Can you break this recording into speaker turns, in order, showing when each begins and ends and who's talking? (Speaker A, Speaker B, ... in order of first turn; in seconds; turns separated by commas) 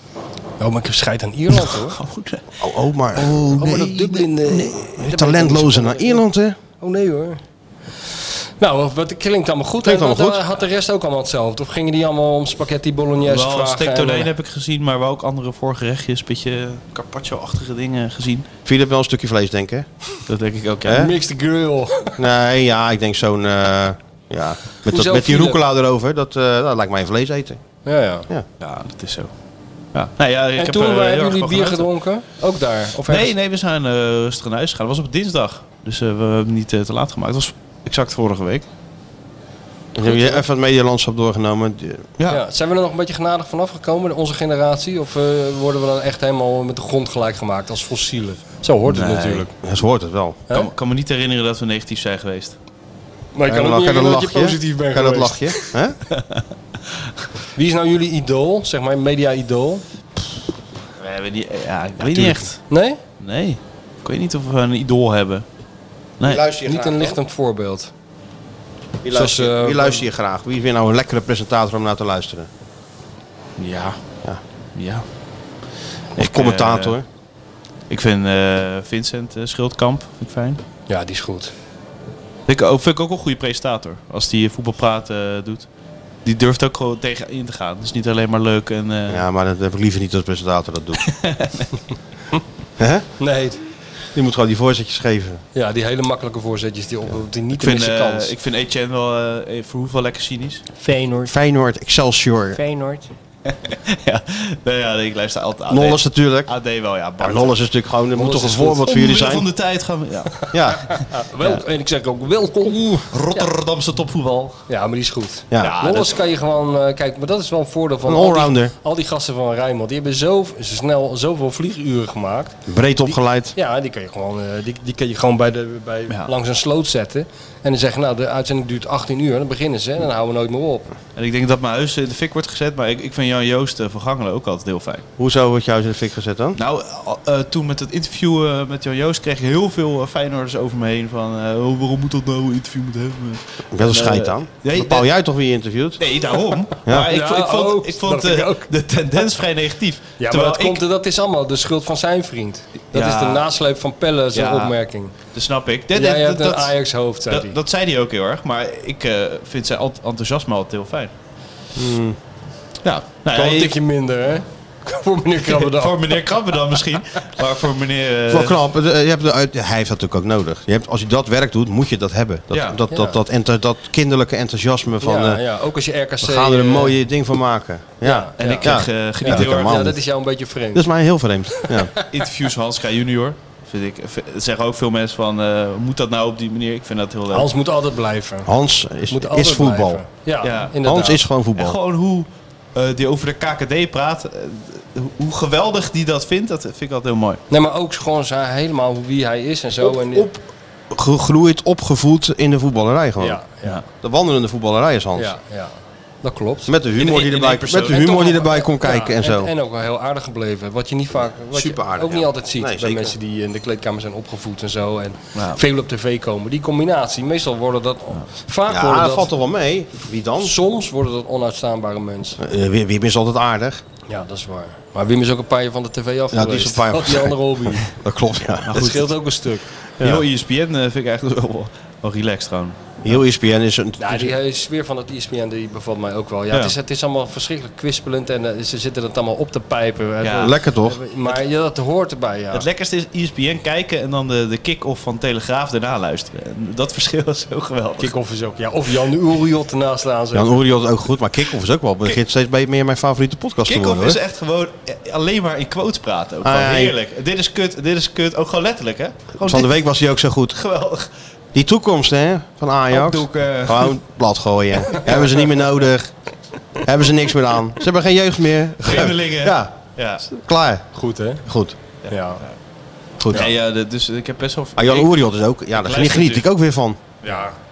Speaker A: 0.6-2.0, Speaker B: 1.5-2.6, Speaker C: 2.6-6.6, Speaker B: 3.2-3.5, Speaker A: 3.2-6.2, Speaker A: 6.8-7.4, Speaker A: 8.6-14.3, Speaker C: 9.8-10.4, Speaker B: 13.2-18.5, Speaker C: 18.7-19.9, Speaker B: 20.3-21.1, Speaker C: 20.9-21.1, Speaker A: 20.9-22.2, Speaker C: 22.2-27.6, Speaker A: 24.9-25.6, Speaker A: 27.9-28.3, Speaker B: 28.6-29.3, Speaker B: 29.9-31.9, Speaker A: 30.6-33.3, Speaker B: 33.1-38.7, Speaker C: 40.0-42.1, Speaker A: 40.0-40.4, Speaker A: 42.3-49.5, Speaker B: 48.9-49.5, Speaker C: 49.6-50.4, Speaker B: 50.5-52.6, Speaker A: 53.3-55.7, Speaker C: 53.5-56.0, Speaker B: 56.1-56.4, Speaker A: 57.5-59.8, Speaker B: 61.0-62.7, Speaker A: 62.1-63.0, Speaker B: 63.2-65.5, Speaker B: 66.2-66.4, Speaker C: 66.2-67.2, Speaker A: 66.7-67.9, Speaker C: 69.0-72.5, Speaker A: 69.1-70.0, Speaker B: 73.6-74.0, Speaker B: 74.8-75.0, Speaker B: 76.2-77.0, Speaker C: 76.2-77.0, Speaker B: 77.9-80.6, Speaker A: 80.9-81.5, Speaker B: 82.5-85.7, Speaker B: 86.2-89.2, Speaker C: 89.1-91.0, Speaker B: 91.1-91.7, Speaker C: 92.8-93.1, Speaker A: 93.2-93.6, Speaker C: 94.1-95.4, Speaker A: 95.5-98.3, Speaker B: 97.6-100.7, Speaker A: 100.8-101.3, Speaker C: 101.2-102.6, Speaker A: 102.6-103.1, Speaker B: 103.5-107.6, Speaker C: 105.7-106.5, Speaker C: 107.2-109.5, Speaker A: 108.2-108.9, Speaker B: 108.8-111.6, Speaker C: 110.5-110.9, Speaker A: 110.9-113.5, Speaker B: 113.1-114.6, Speaker A: 114.7-130.9, Speaker C: 115.5-115.8, Speaker B: 115.6-116.2, Speaker C: 118.1-118.7, Speaker C: 122.7-123.5, Speaker B: 131.2-135.0, Speaker C: 135.2-136.6, Speaker B: 136.6-145.1, Speaker C: 143.7-146.0, Speaker B: 146.0-150.8, Speaker A: 146.9-148.7, Speaker A: 150.2-155.1, Speaker B: 152.9-153.4, Speaker B: 154.3-161.1, Speaker A: 155.9-157.6, Speaker C: 161.8-162.2, Speaker B: 162.8-163.8, Speaker A: 163.3-166.2, Speaker B: 165.5-168.6, Speaker C: 168.3-175.4, Speaker B: 172.5-172.8, Speaker A: 172.9-173.2, Speaker A: 175.0-177.0, Speaker C: 176.2-180.0, Speaker A: 178.0-180.9, Speaker B: 178.4-179.9, Speaker C: 180.7-181.9, Speaker A: 181.6-181.8, Speaker B: 182.1-187.5, Speaker A: 187.3-188.5, Speaker C: 188.4-190.0, Speaker A: 189.1-191.2, Speaker B: 190.4-190.8, Speaker C: 190.8-191.8, Speaker B: 191.6-197.4, Speaker A: 197.5-200.3, Speaker C: 199.8-203.4, Speaker A: 203.2-203.8, Speaker C: 204.0-205.3, Speaker A: 205.2-206.7, Speaker C: 206.7-209.5, Speaker B: 207.0-208.3, Speaker A: 207.9-219.3, Speaker C: 211.5-213.2, Speaker B: 215.3-215.6, Speaker C: 218.7-220.6, Speaker A: 220.4-222.4, Speaker C: 222.4-223.8, Speaker A: 224.1-227.9, Speaker C: 226.3-228.9, Speaker B: 228.7-229.1, Speaker A: 228.7-229.7, Speaker B: 230.0-233.2, Speaker C: 233.0-234.3, Speaker A: 234.0-242.7, Speaker B: 240.2-240.5, Speaker C: 240.4-241.0, Speaker B: 242.5-248.1, Speaker A: 248.0-250.6, Speaker C: 250.3-254.2, Speaker B: 253.7-259.7, Speaker C: 256.4-256.9, Speaker C: 259.4-260.6, Speaker B: 260.5-261.1, Speaker C: 261.5-266.1, Speaker B: 262.9-264.0, Speaker C: 266.8-270.9, Speaker B: 268.8-270.2, Speaker A: 270.9-271.4, Speaker C: 271.5-271.8, Speaker B: 272.0-272.5, Speaker A: 272.1-272.4, Speaker C: 273.2-273.5, Speaker B: 273.3-275.1, Speaker C: 274.8-277.0, Speaker B: 275.7-276.5, Speaker A: 277.2-277.6